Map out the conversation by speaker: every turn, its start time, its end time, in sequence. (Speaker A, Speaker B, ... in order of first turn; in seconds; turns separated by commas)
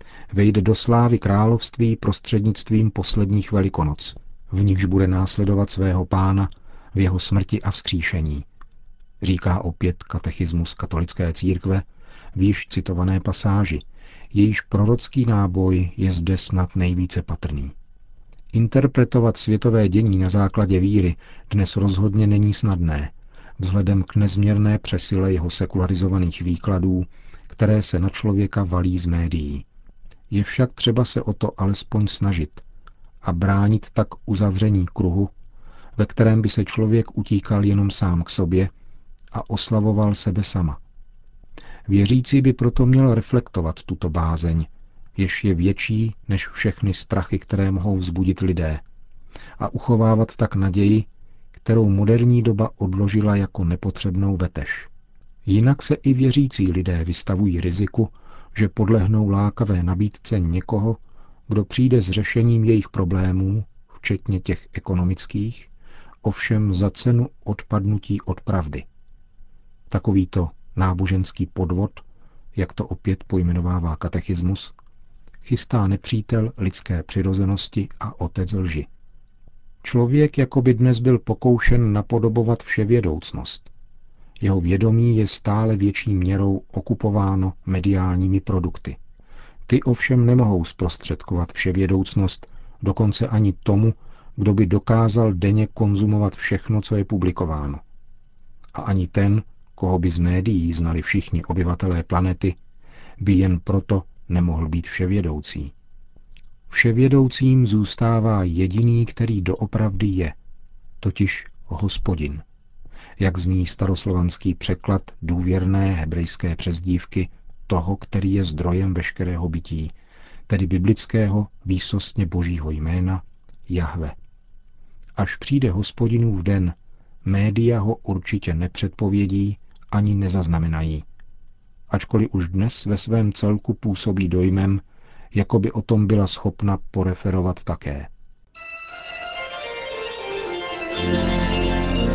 Speaker A: 0.3-8.5, Speaker A: 9.2-17.7, Speaker A: 18.5-29.6, Speaker A: 30.3-32.6, Speaker A: 33.2-35.3, Speaker A: 36.0-38.7, Speaker A: 39.3-40.8, Speaker A: 41.9-48.8, Speaker A: 49.6-54.9, Speaker A: 55.5-65.7, Speaker A: 66.2-68.8, Speaker A: 69.9-74.8, Speaker A: 75.4-78.9, Speaker A: 79.8-83.7, Speaker A: 84.4-89.0, Speaker A: 89.7-97.8, Speaker A: 98.7-102.6, Speaker A: 103.2-105.7, Speaker A: 106.7-110.4, Speaker A: 111.0-112.4, Speaker A: 113.2-120.0, Speaker A: 120.5-124.2, Speaker A: 125.2-131.1, Speaker A: 131.9-138.1